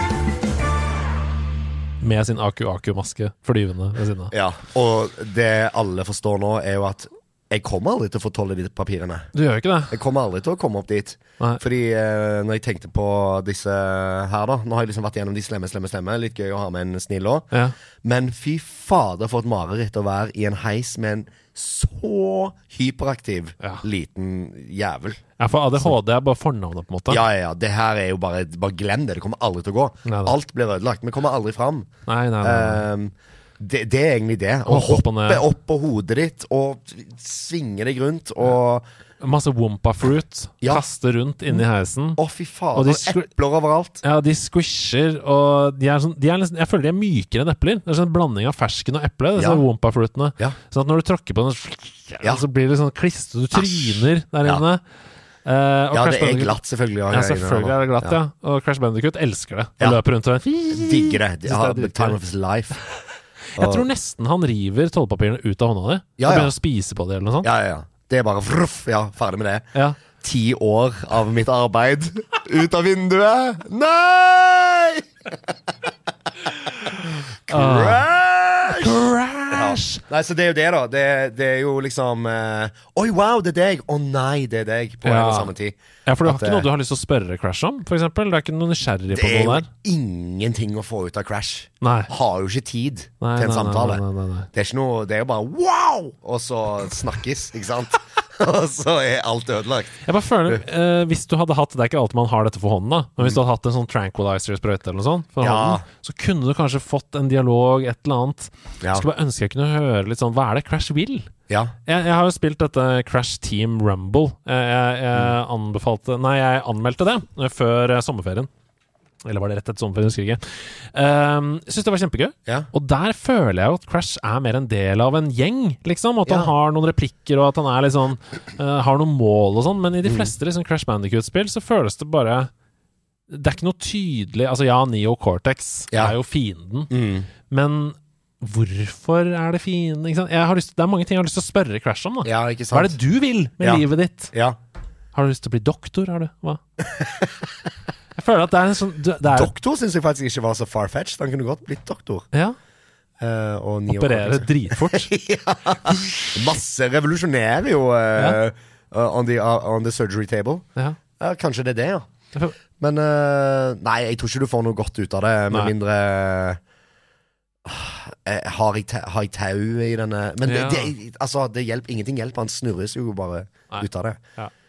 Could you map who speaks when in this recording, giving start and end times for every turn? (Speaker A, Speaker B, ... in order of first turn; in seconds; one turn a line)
Speaker A: 2.0-4.3
Speaker B: 4.3-9.3
Speaker A: 9.3-10.0
Speaker B: 9.9-17.5
Speaker B: 18.0-25.2
Speaker A: 25.4-27.2
Speaker B: 27.1-38.8
Speaker A: 30.1-30.4
Speaker A: 32.0-32.8
Speaker A: 34.6-35.4
Speaker A: 39.2-42.2
Speaker B: 42.2-44.0
Speaker A: 42.7-43.3
Speaker A: 44.0-54.8
Speaker B: 49.4-49.6
Speaker B: 53.5-54.6
Speaker A: 55.4-62.2
Speaker B: 55.9-58.2
Speaker B: 60.7-62.8
Speaker A: 63.5-67.5
Speaker B: 63.6-63.9
Speaker B: 66.2-66.5
Speaker B: 67.4-75.3
Speaker A: 76.8-78.1
Speaker B: 77.5-86.7
Speaker A: 78.6-80.0
Speaker A: 85.0-85.5
Speaker A: 86.0-89.7
Speaker B: 89.1-100.6
Speaker A: 91.8-92.1
Speaker A: 93.2-94.5
Speaker A: 100.0-111.3
Speaker B: 105.4-105.8
Speaker B: 111.5-111.7
Speaker A: 111.8-118.5
Speaker A: 119.2-132.5
Speaker B: 126.2-126.5
Speaker B: 130.0-130.3
Speaker A: 133.3-136.9
Speaker B: 136.9-137.3
Speaker A: 137.5-144.3
Speaker B: 142.2-142.9
Speaker B: 143.6-144.6
Speaker A: 145.1-146.6
Speaker B: 146.9-147.3
Speaker A: 148.2-149.5
Speaker B: 149.2-152.3
Speaker B: 153.2-160.6
Speaker A: 153.9-155.1
Speaker B: 161.2-162.1
Speaker B: 162.8-166.6
Speaker B: 167.6-174.2
Speaker A: 170.4-170.9
Speaker A: 173.7-174.5